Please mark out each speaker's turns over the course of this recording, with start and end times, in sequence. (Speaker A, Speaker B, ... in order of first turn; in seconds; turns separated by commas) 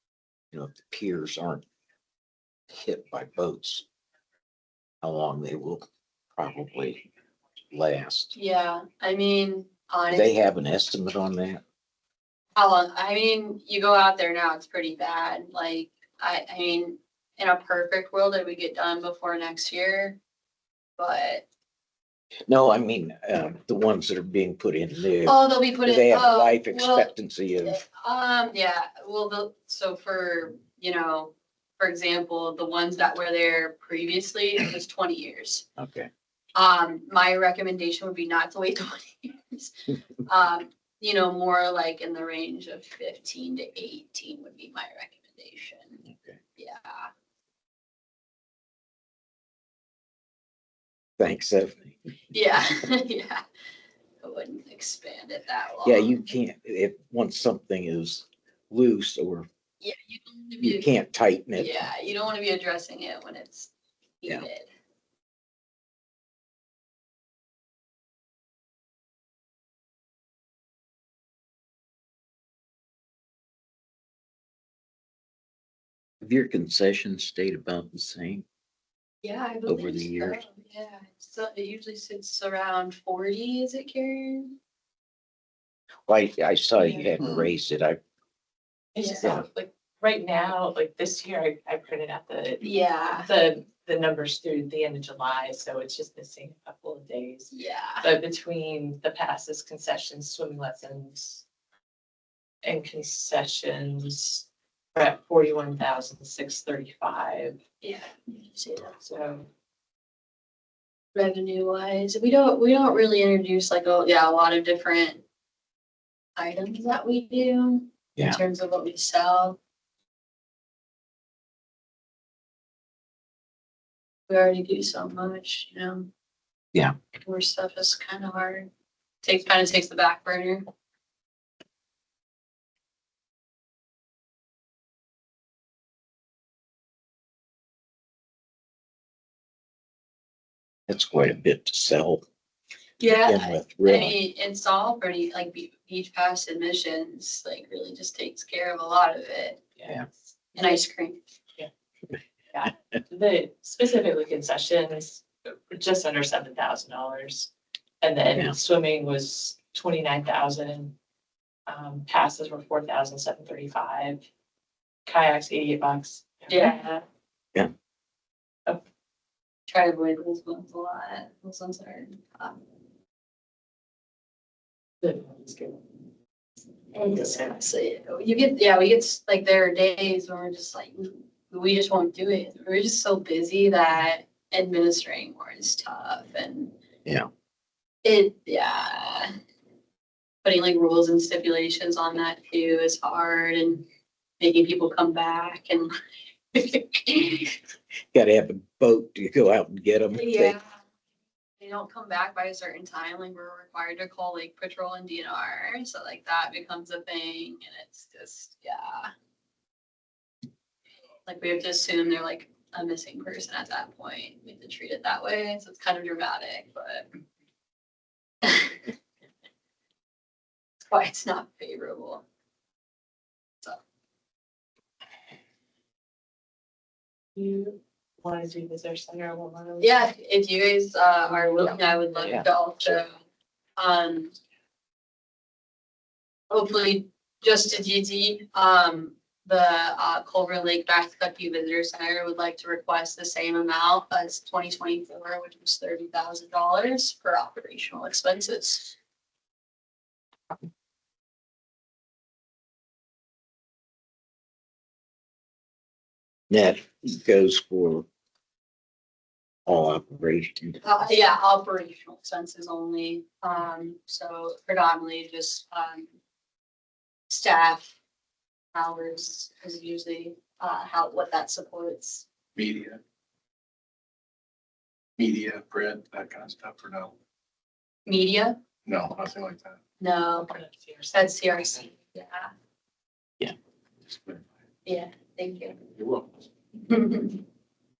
Speaker A: 0.5-1.6, Speaker A: 2.7-3.8, Speaker A: 5.0-5.8, Speaker A: 6.4-7.0, Speaker A: 7.7-8.3, Speaker B: 8.3-10.3, Speaker A: 10.1-11.6, Speaker B: 12.6-20.2, Speaker B: 21.0-21.4, Speaker A: 22.5-27.8, Speaker B: 25.2-27.1, Speaker B: 27.6-35.6, Speaker A: 35.8-36.1, Speaker B: 36.5-39.7, Speaker B: 40.2-46.0, Speaker A: 46.1-46.4, Speaker B: 46.5-47.1, Speaker A: 51.2-51.9, Speaker B: 52.3-53.4, Speaker B: 54.2-56.3, Speaker A: 55.8-59.5, Speaker B: 59.8-60.9, Speaker A: 60.6-61.8, Speaker B: 61.6-64.7, Speaker A: 76.2-78.4, Speaker B: 79.2-84.5, Speaker A: 79.7-80.4, Speaker A: 86.1-88.0, Speaker C: 88.9-101.4, Speaker B: 89.0-89.4, Speaker B: 92.6-93.3, Speaker B: 97.5-98.1, Speaker C: 102.6-107.6, Speaker B: 107.8-109.0, Speaker C: 109.0-109.5, Speaker B: 111.1-115.2, Speaker B: 116.3-119.6, Speaker B: 124.3-126.1, Speaker B: 127.2-128.7, Speaker B: 129.2-130.6, Speaker A: 140.9-142.2, Speaker B: 143.0-149.6, Speaker A: 143.2-144.2, Speaker C: 149.8-150.8, Speaker B: 150.5-151.2, Speaker C: 152.5-157.5, Speaker C: 158.0-160.9, Speaker C: 161.7-164.2, Speaker C: 165.1-166.8, Speaker B: 166.5-167.0, Speaker B: 169.7-172.6, Speaker C: 175.0-175.8, Speaker B: 176.9-186.7, Speaker C: 177.2-177.5, Speaker B: 188.0-189.3, Speaker B: 190.4-193.8, Speaker B: 194.4-195.9, Speaker B: 196.5-197.5, Speaker A: 198.1-200.6, Speaker B: 200.1-200.8, Speaker B: 201.6-209.1, Speaker B: 211.2-217.1, Speaker B: 218.4-218.8, Speaker B: 220.9-222.2, Speaker C: 227.3-230.0, Speaker B: 229.8-233.1, Speaker C: 231.2-232.4, Speaker B: 233.8-234.3, Speaker B: 236.5-248.9, Speaker A: 256.5-258.1, Speaker A: 259.6-260.8, Speaker B: 260.8-266.1, Speaker B: 267.3-267.9, Speaker B: 268.7-272.2, Speaker D: 272.6-273.0, Speaker D: 275.2-277.1, Speaker B: 278.1-278.6, Speaker D: 278.9-279.8, Speaker B: 280.0-280.5, Speaker C: 280.4-281.5, Speaker B: 281.1-282.5, Speaker D: 284.1-284.4, Speaker B: 284.8-285.8, Speaker D: 285.9-286.4, Speaker B: 286.8-287.4